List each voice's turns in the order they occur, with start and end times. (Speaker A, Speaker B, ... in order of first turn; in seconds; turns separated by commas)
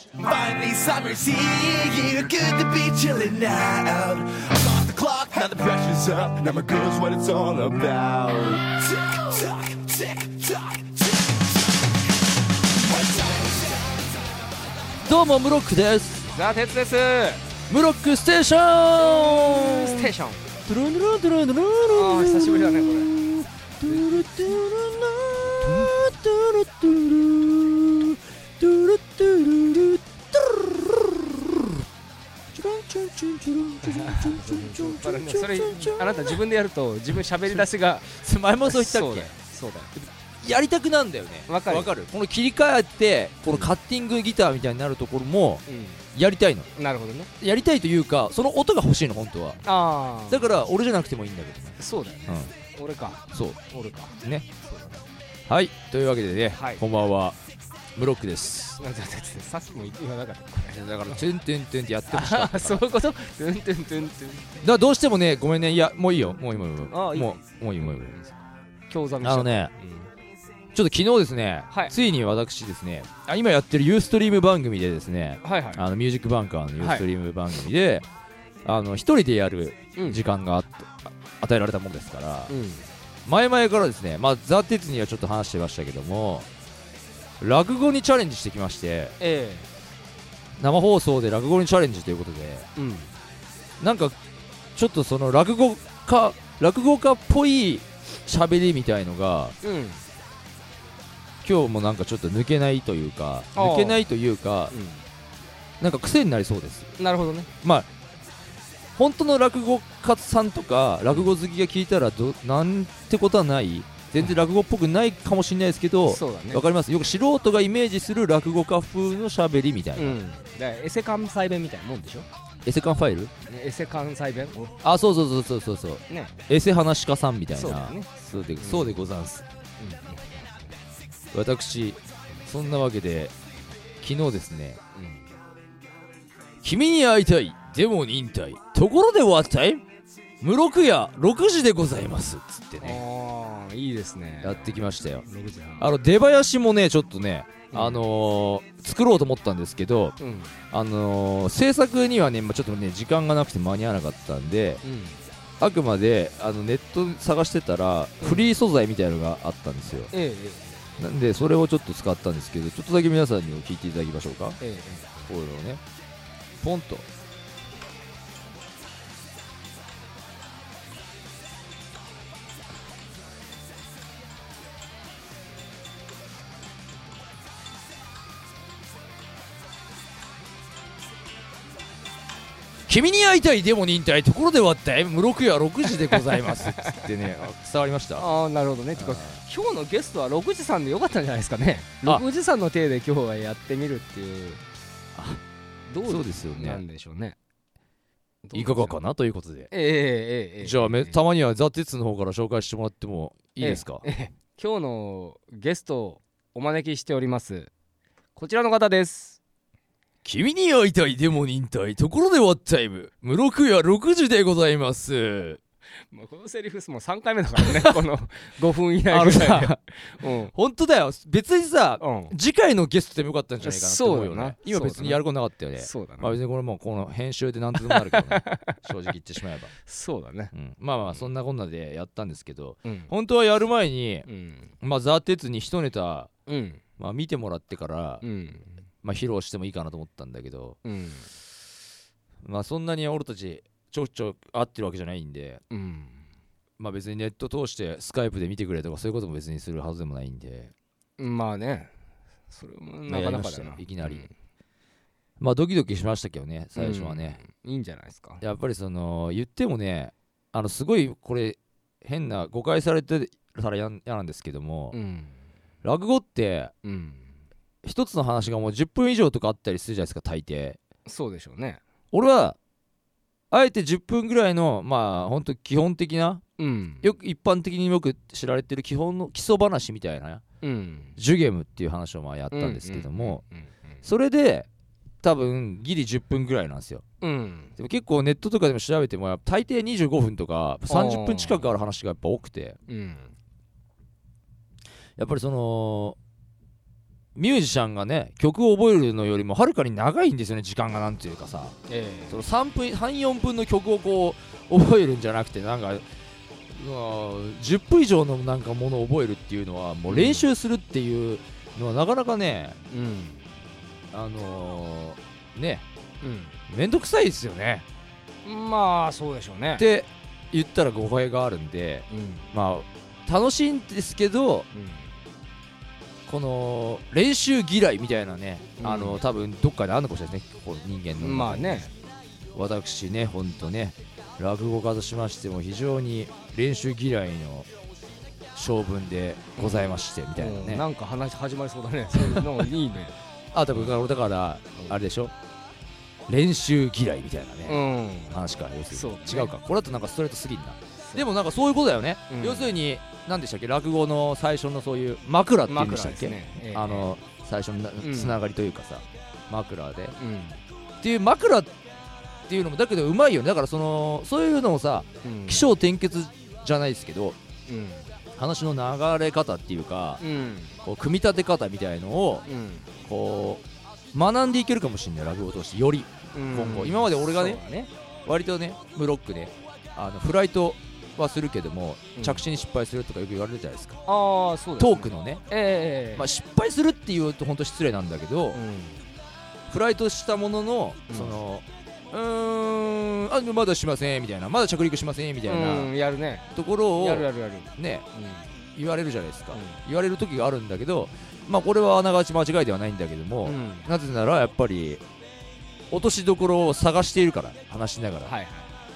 Speaker A: 0.2-11.4, Speaker A: 12.8-13.8, Speaker B: 15.0-16.3, Speaker C: 16.3-17.5, Speaker B: 17.7-20.1, Speaker C: 19.0-20.6, Speaker B: 20.6-31.8, Speaker C: 21.9-23.2, Speaker C: 23.8-24.2, Speaker C: 25.5-26.1, Speaker B: 32.5-36.4, Speaker C: 33.8-39.9, Speaker B: 37.5-39.3, Speaker B: 40.0-46.7, Speaker C: 41.5-41.9, Speaker C: 43.5-43.7, Speaker C: 45.7-46.0, Speaker C: 46.8-47.3, Speaker B: 47.4-49.6, Speaker C: 49.6-50.6, Speaker B: 50.3-52.5, Speaker C: 51.8-55.0, Speaker B: 53.3-53.6, Speaker B: 55.5-57.4, Speaker C: 56.5-56.8, Speaker B: 58.0-58.8, Speaker C: 58.8-61.2, Speaker B: 60.7-62.9, Speaker C: 62.1-64.6, Speaker B: 64.6-68.2, Speaker C: 66.7-70.1, Speaker B: 69.2-69.7, Speaker B: 70.7-78.0, Speaker C: 75.4-75.9, Speaker C: 76.8-77.1, Speaker B: 78.6-82.5, Speaker C: 80.0-80.2, Speaker C: 82.5-82.9, Speaker B: 83.2-86.5, Speaker B: 87.4-89.1, Speaker C: 89.2-89.7, Speaker B: 90.6-92.7, Speaker C: 92.8-93.1, Speaker B: 93.8-94.2, Speaker B: 94.7-99.5, Speaker C: 99.6-100.0, Speaker B: 101.4-104.7, Speaker C: 103.5-104.1, Speaker C: 104.7-105.0, Speaker B: 105.8-106.9, Speaker C: 107.0-107.5, Speaker B: 107.6-107.9, Speaker B: 109.0-120.2, Speaker C: 111.1-111.4, Speaker C: 116.1-116.7, Speaker C: 120.0-122.3, Speaker B: 122.6-123.3, Speaker C: 123.4-124.8, Speaker B: 124.8-129.4, Speaker C: 126.1-126.4, Speaker C: 127.5-129.0, Speaker C: 129.8-130.8, Speaker B: 131.3-133.3, Speaker B: 134.0-134.8, Speaker C: 134.9-135.3, Speaker B: 136.6-139.8, Speaker B: 140.4-143.0, Speaker C: 142.8-145.9, Speaker B: 144.4-145.2, Speaker B: 145.8-150.2, Speaker C: 147.7-148.0, Speaker C: 150.2-150.6, Speaker B: 150.7-154.8, Speaker C: 154.8-155.2, Speaker B: 155.6-160.1, Speaker C: 158.2-158.5, Speaker C: 160.1-161.1, Speaker B: 161.0-164.6, Speaker C: 164.6-165.3, Speaker B: 165.3-165.8, Speaker B: 166.6-167.1, Speaker B: 182.9-188.2, Speaker C: 186.0-187.1, Speaker C: 188.2-194.6, Speaker B: 188.9-189.4, Speaker B: 195.2-195.4, Speaker C: 195.9-197.4, Speaker B: 196.0-196.8, Speaker C: 198.4-199.0, Speaker B: 198.5-199.7, Speaker C: 199.7-201.2, Speaker B: 200.6-204.1, Speaker C: 203.6-207.7, Speaker C: 208.3-209.4, Speaker B: 210.2-215.6, Speaker C: 216.1-220.5, Speaker B: 219.1-229.7, Speaker C: 222.0-222.3, Speaker C: 223.6-225.2, Speaker C: 225.8-226.3, Speaker C: 227.8-228.8, Speaker C: 229.8-230.5, Speaker B: 230.5-234.3, Speaker C: 232.8-233.1, Speaker C: 234.3-234.7, Speaker B: 234.8-236.3, Speaker C: 236.5-236.8, Speaker B: 237.0-238.2, Speaker C: 238.2-238.7, Speaker B: 239.0-240.8, Speaker C: 240.8-241.3, Speaker B: 242.4-245.6, Speaker C: 245.7-246.2, Speaker B: 246.8-250.7, Speaker C: 251.2-251.9, Speaker C: 252.5-254.3, Speaker B: 253.1-254.3, Speaker B: 255.4-257.4, Speaker C: 256.8-258.4, Speaker B: 258.4-264.9, Speaker C: 264.9-265.4, Speaker B: 265.8-266.7, Speaker C: 266.8-267.4, Speaker B: 267.8-270.8, Speaker C: 271.1-271.8, Speaker B: 272.1-272.6, Speaker B: 273.5-276.4, Speaker C: 276.6-277.1, Speaker B: 277.0-280.4, Speaker C: 280.6-281.2, Speaker B: 281.2-283.4, Speaker C: 282.5-283.8, Speaker B: 284.0-284.7, Speaker B: 285.2-287.0, Speaker C: 287.2-287.7, Speaker B: 287.8-292.8, Speaker C: 290.9-291.8, Speaker C: 292.9-293.3, Speaker B: 295.2-296.2, Speaker B: 297.4-301.8, Speaker C: 301.9-302.4, Speaker B: 302.3-306.0, Speaker B: 306.7-312.8, Speaker C: 310.1-310.5, Speaker C: 312.9-313.5, Speaker B: 314.1-315.8, Speaker C: 316.2-316.6, Speaker B: 316.7-317.9, Speaker C: 318.4-319.9, Speaker B: 319.8-324.7, Speaker C: 322.1-322.5, Speaker C: 324.7-325.1, Speaker B: 326.3-331.9, Speaker C: 328.8-329.2, Speaker C: 331.1-331.9, Speaker B: 332.5-337.7, Speaker B: 338.5-340.8, Speaker C: 339.6-343.2, Speaker B: 342.2-342.6, Speaker B: 343.5-345.3, Speaker B: 346.3-360.2, Speaker C: 347.6-349.5, Speaker C: 352.3-352.7, Speaker C: 355.7-357.2, Speaker C: 358.0-358.4, Speaker C: 360.2-360.6, Speaker B: 361.0-361.7, Speaker B: 362.5-367.4, Speaker C: 365.2-365.7, Speaker C: 367.7-368.1, Speaker B: 368.4-370.2, Speaker C: 370.2-370.8, Speaker B: 370.8-372.5, Speaker C: 372.4-372.9, Speaker B: 373.0-377.6, Speaker C: 376.3-377.9, Speaker B: 378.2-384.0, Speaker C: 382.1-382.4, Speaker C: 384.1-386.3, Speaker B: 384.8-385.4, Speaker B: 386.1-388.6, Speaker C: 388.5-389.0, Speaker B: 389.7-395.9, Speaker C: 391.1-391.4, Speaker C: 395.4-398.5, Speaker B: 396.5-398.0, Speaker B: 398.7-405.0, Speaker C: 399.5-399.8, Speaker C: 403.4-403.9, Speaker B: 405.9-408.3, Speaker C: 408.2-408.8